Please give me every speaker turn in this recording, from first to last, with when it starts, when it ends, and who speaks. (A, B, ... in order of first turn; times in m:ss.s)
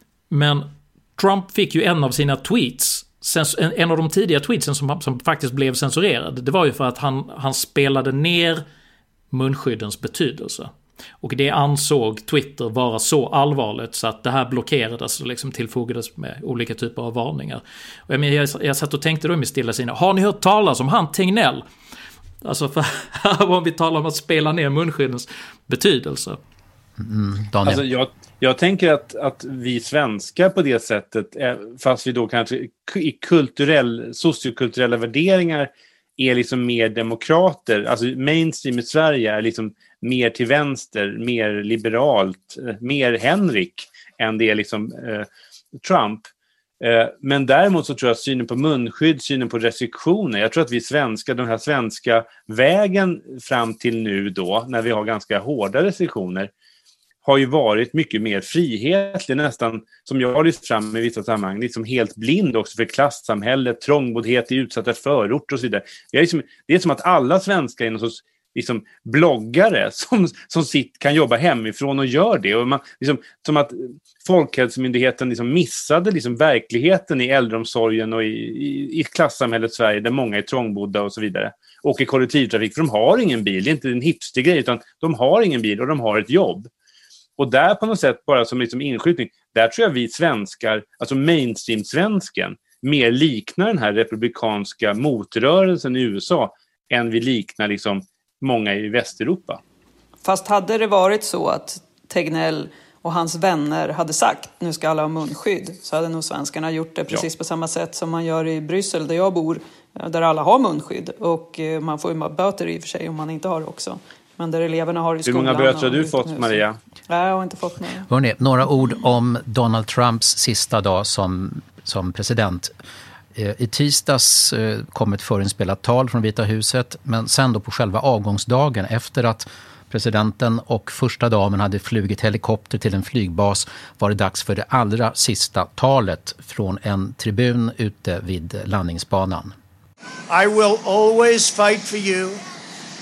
0:00.3-0:08.6 A
0:09.3-0:10.7 A
0:11.2-0:21.6 A
0:22.4-0:26.4 A
0:27.0-0:27.8 B
0:27.7-0:45.3 C
0:45.8-0:46.3 C
0:46.8-0:56.5 C
0:57.2-1:26.7 C
1:27.4-1:39.6 C
1:40.2-1:58.1 D
1:55.3-1:56.8 C
1:58.1-2:02.7 B
2:03.4-2:19.5 B
2:20.3-2:22.4 E